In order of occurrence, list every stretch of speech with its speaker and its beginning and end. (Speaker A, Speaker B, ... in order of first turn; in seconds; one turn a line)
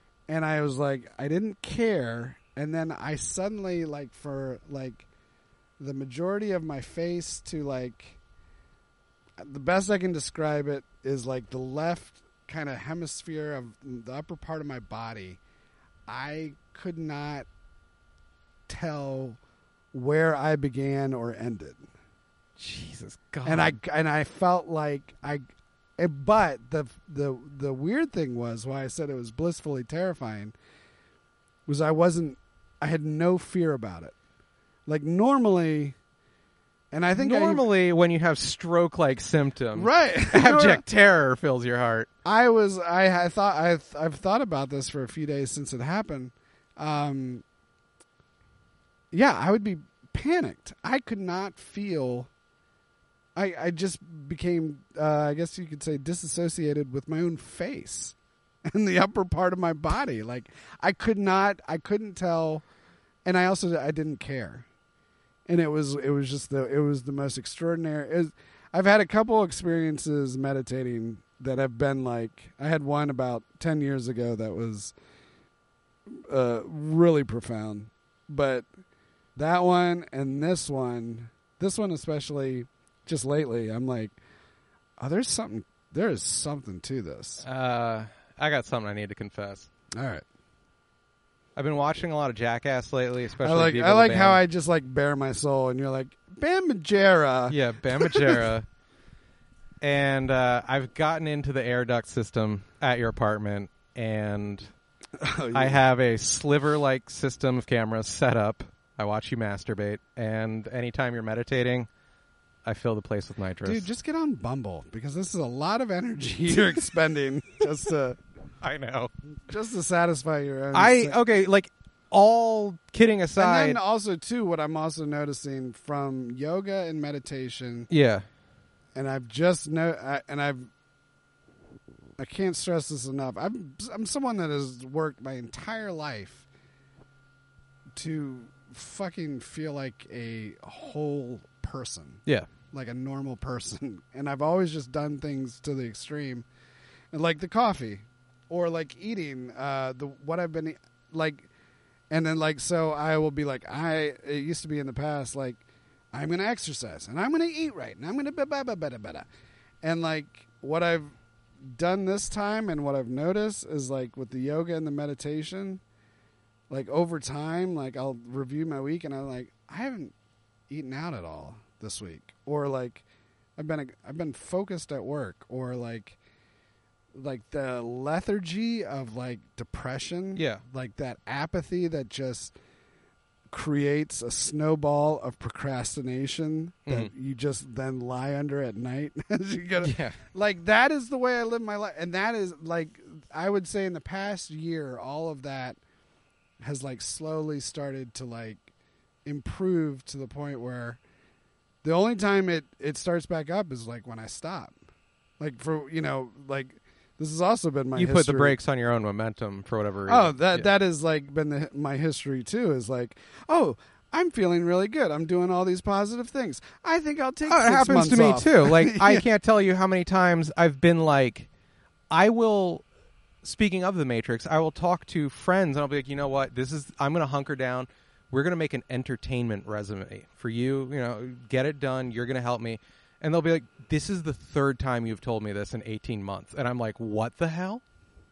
Speaker A: 0.3-5.0
Speaker A: 5.8-8.2
Speaker A: 9.4-15.4
Speaker A: 16.1-17.4
Speaker A: 18.7-19.4
Speaker A: 19.9-21.9
Speaker B: 22.6-23.8
Speaker A: 23.4-25.4
Speaker A: 26.0-30.5
Speaker A: 31.6-34.1
Speaker A: 34.9-36.0
Speaker A: 36.9-37.6
Speaker B: 37.1-42.1
Speaker A: 39.7-40.8
Speaker A: 42.2-47.4
Speaker A: 49.1-52.3
Speaker A: 53.3-62.6
Speaker A: 63.2-64.7
Speaker A: 65.5-74.9
Speaker A: 76.1-78.7
Speaker A: 79.3-84.2
Speaker A: 85.0-87.4
Speaker B: 87.4-89.7
Speaker A: 89.9-90.2
Speaker B: 91.5-94.4
Speaker A: 93.4-98.4
Speaker B: 97.5-98.7
Speaker B: 99.8-104.7
Speaker A: 105.2-105.8
Speaker B: 105.5-111.9
Speaker B: 112.6-113.9
Speaker A: 113.6-118.2
Speaker B: 118.6-119.1
Speaker A: 119.5-121.2
Speaker B: 120.7-123.8
Speaker A: 123.4-127.9
Speaker B: 127.9-128.2
Speaker A: 128.9-130.7
Speaker A: 132.2-136.4
Speaker A: 137.9-146.4
Speaker A: 147.1-151.5
Speaker A: 152.1-159.2
Speaker A: 159.8-165.8
Speaker A: 166.7-170.1
Speaker A: 170.7-173.0
Speaker A: 173.6-176.2
Speaker A: 177.1-182.5
Speaker B: 180.3-180.6
Speaker A: 183.5-195.8
Speaker B: 189.8-190.2
Speaker A: 196.6-198.7
Speaker A: 199.2-201.0
Speaker A: 201.8-204.7
Speaker A: 205.4-208.6
Speaker B: 207.9-210.7
Speaker A: 210.1-219.2
Speaker B: 217.4-221.5
Speaker B: 222.1-222.8
Speaker B: 223.4-237.8